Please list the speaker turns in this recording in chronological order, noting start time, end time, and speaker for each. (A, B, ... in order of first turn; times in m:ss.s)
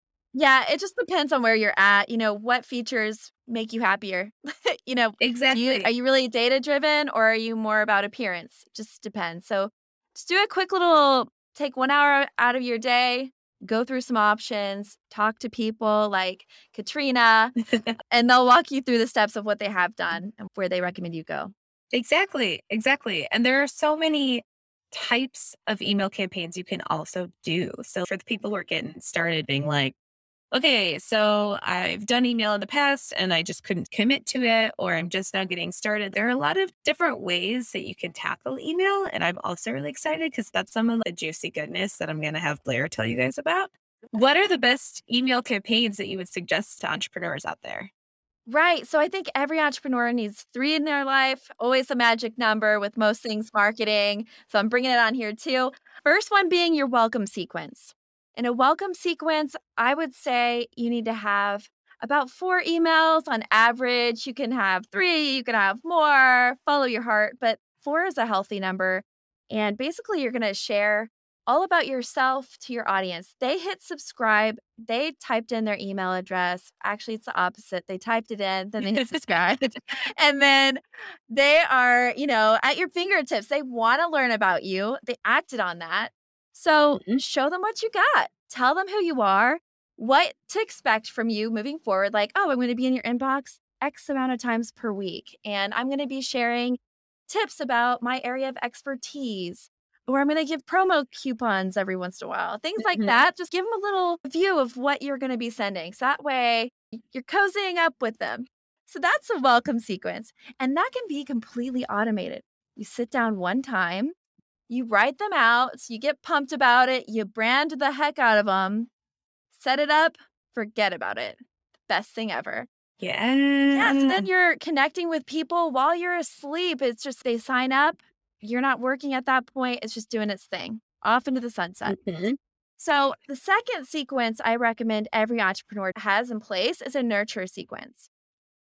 0:00.3-0:17.5 A
0:05.2-0:05.9 B
0:17.6-0:17.9 B
0:18.1-0:21.5 A
0:21.9-0:29.9 B
0:30.5-0:47.9 B
0:48.5-1:19.6 A
1:18.8-1:19.1 B
1:20.2-1:36.8 A
1:26.9-1:27.2 B
1:37.3-1:54.1 A
1:42.8-1:43.2 B
1:54.7-1:58.9 A
1:59.5-2:02.7 A
2:03.0-2:04.3 B
2:03.7-2:12.0 A
2:11.8-2:12.4 B
2:12.8-2:18.1 A